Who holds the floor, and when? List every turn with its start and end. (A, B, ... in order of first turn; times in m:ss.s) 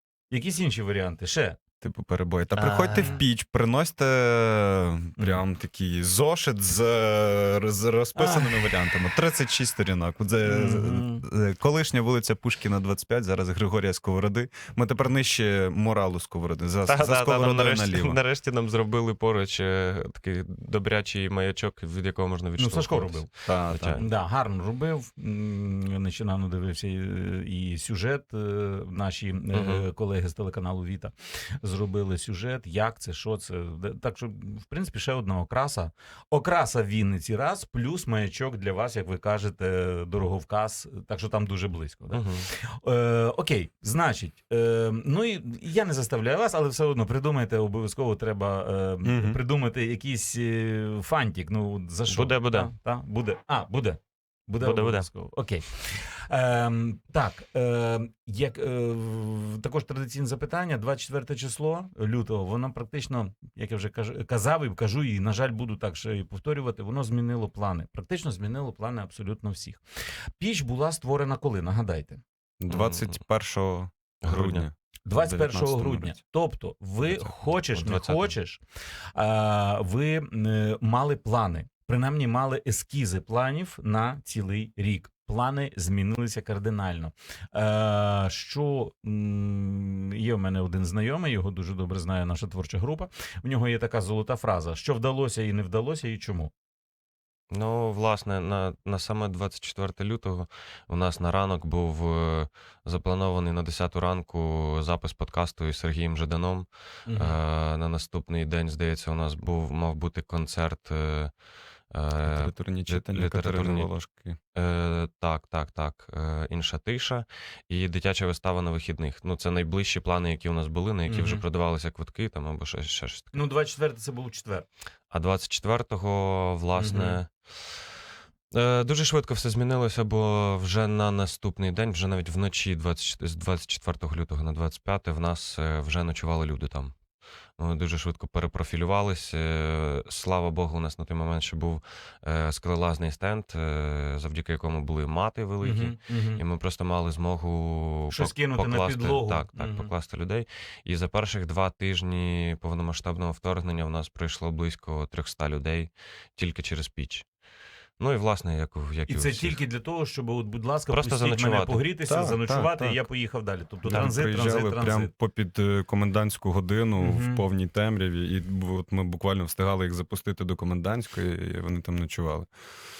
0:00.3-0:01.6 A
0:01.8-0:18.2 B
0:02.6-0:03.2 C
0:08.1-0:08.7 A
0:10.4-0:11.2 A
0:16.8-0:24.1 C
0:22.6-0:23.3 A
0:23.4-0:24.0 B
0:24.0-1:09.8 A
0:29.5-0:29.8 C
0:42.1-0:42.5 C
0:49.0-0:49.4 B
0:52.1-0:52.7 C
0:54.6-0:55.1 C
1:10.4-1:12.2 A
1:12.6-1:16.2 B
1:12.7-1:13.1 C
1:14.2-1:14.6 C
1:15.0-1:18.6 A
1:17.6-1:18.3 C
1:19.1-1:36.5 A
1:37.5-1:54.0 C
1:47.0-1:47.4 A
1:52.2-1:54.4 B
1:54.5-2:03.4 C
2:01.1-2:01.4 A
2:03.3-2:04.7 A
2:05.1-2:07.8 C
2:06.8-2:07.2 A
2:08.5-2:17.0 C
2:17.6-2:37.3 C
2:25.6-2:26.4 A
2:28.1-2:29.9 A
2:38.0-2:39.6 C
2:39.1-2:45.1 A
2:40.9-2:41.8 C
2:42.1-2:43.1 B
2:43.8-2:52.5 B
2:47.0-2:47.4 A